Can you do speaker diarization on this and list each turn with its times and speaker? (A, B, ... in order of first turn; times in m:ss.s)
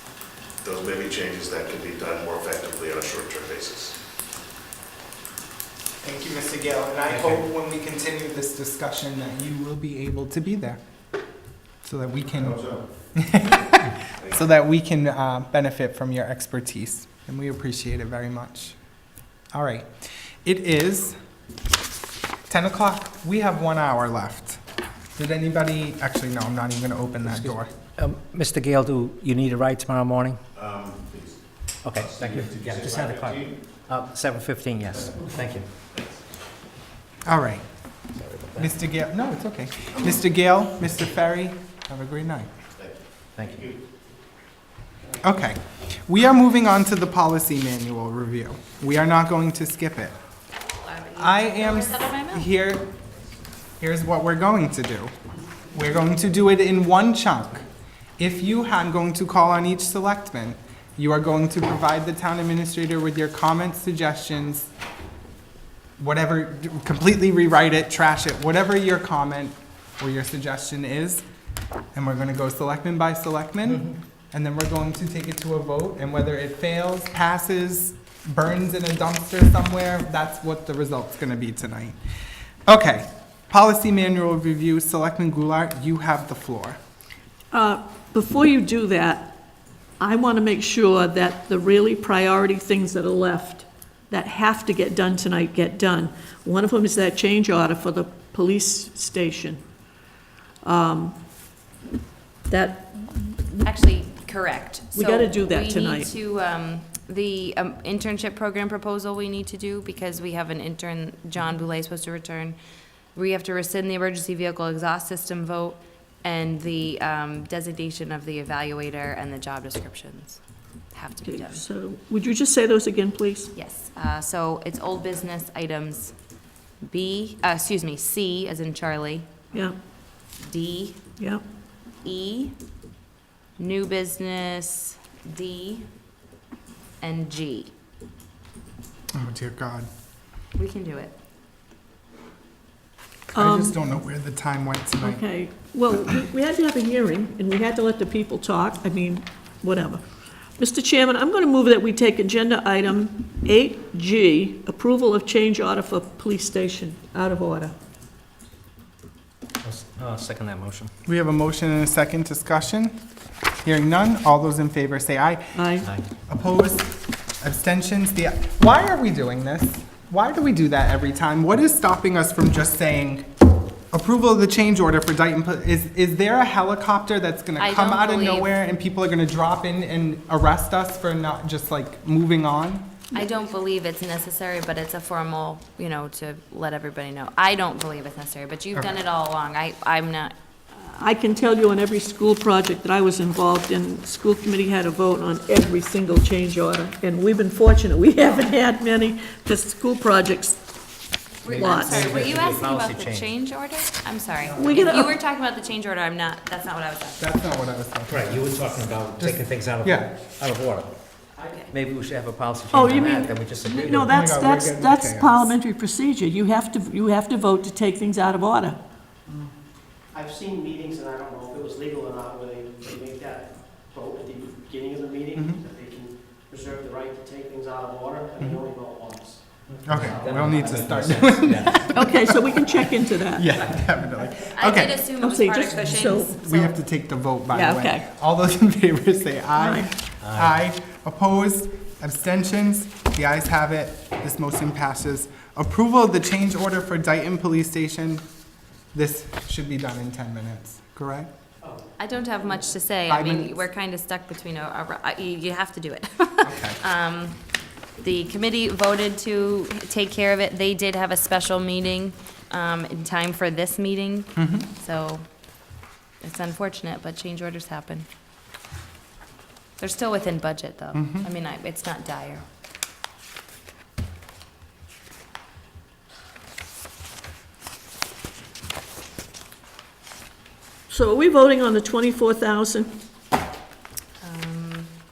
0:00.6-0:04.0 A
0:06.0-0:10.8 B
0:07.1-0:07.4 C
0:11.8-0:18.8 B
0:12.3-0:12.9 A
0:19.5-0:21.2 B
0:22.5-0:24.6 B
0:25.2-0:27.7 B
0:27.3-0:30.4 C
0:30.5-0:31.4 A
0:31.8-0:35.7 C
0:31.9-0:33.5 A
0:35.9-0:36.2 A
0:37.2-0:37.6 B
0:38.1-0:38.7 C
0:38.6-0:42.5 B
0:42.8-0:43.8 A
0:43.4-0:43.7 C
0:45.2-0:50.2 B
0:50.6-0:52.4 D
0:51.2-0:52.9 B
0:53.8-0:55.1 B
0:55.7-0:57.6 B
0:58.2-1:04.7 B
1:06.0-1:11.2 B
1:11.9-1:22.0 B
1:22.7-1:26.8 B
1:27.5-1:29.4 E
1:30.0-1:39.6 E
1:40.6-1:41.2 E
1:42.5-1:43.7 E
1:43.6-1:52.6 D
1:44.9-1:46.1 E
1:53.1-2:00.4 D
2:00.9-2:01.6 D
2:01.2-2:03.5 E
2:03.5-2:06.1 D
2:06.8-2:09.3 D
2:10.4-2:11.0 D
2:11.2-2:11.4 E
2:12.0-2:12.5 D
2:13.6-2:15.8 D
2:17.0-2:17.7 D
2:19.1-2:19.9 B
2:20.5-2:21.1 D
2:23.3-2:23.8 E
2:23.3-2:25.2 B
2:25.0-2:30.0 E
2:30.6-2:37.7 E
2:39.6-2:40.9 C
2:41.0-2:43.0 B
2:43.6-2:45.7 B
2:45.5-2:45.9 E
2:46.3-2:53.3 B
2:53.9-3:02.8 B
2:57.6-2:58.5 D
3:03.1-3:10.3 D
3:10.7-3:20.6 E
3:21.4-3:27.2 D
3:21.4-3:23.4 C
3:21.5-3:22.3 E
3:24.6-3:25.2 E
3:27.2-3:28.6 B
3:28.1-3:30.9 C
3:29.2-3:30.1 B
3:31.3-3:31.7 F
3:31.7-3:34.2 C
3:32.7-3:38.8 E
3:34.0-3:35.6 B
3:40.1-3:51.5 F
3:45.3-3:45.6 B
3:48.4-3:48.6 B
3:49.7-3:52.1 C
3:49.8-3:55.1 B
3:51.9-3:53.5 E
3:54.4-3:56.8 D
3:55.2-3:56.3 E
3:56.2-4:08.2 B
3:57.5-3:58.1 E
3:59.6-3:59.9 E
4:00.2-4:00.6 C
4:08.9-4:11.3 B
4:11.6-4:12.9 F
4:12.0-4:17.4 D
4:13.1-4:13.6 B
4:16.4-4:16.8 B
4:18.0-4:25.2 D
4:24.4-4:24.6 B
4:26.2-4:28.1 D
4:29.8-4:32.4 D
4:30.9-4:31.3 B
4:40.9-4:42.9 E
4:44.2-4:44.9 D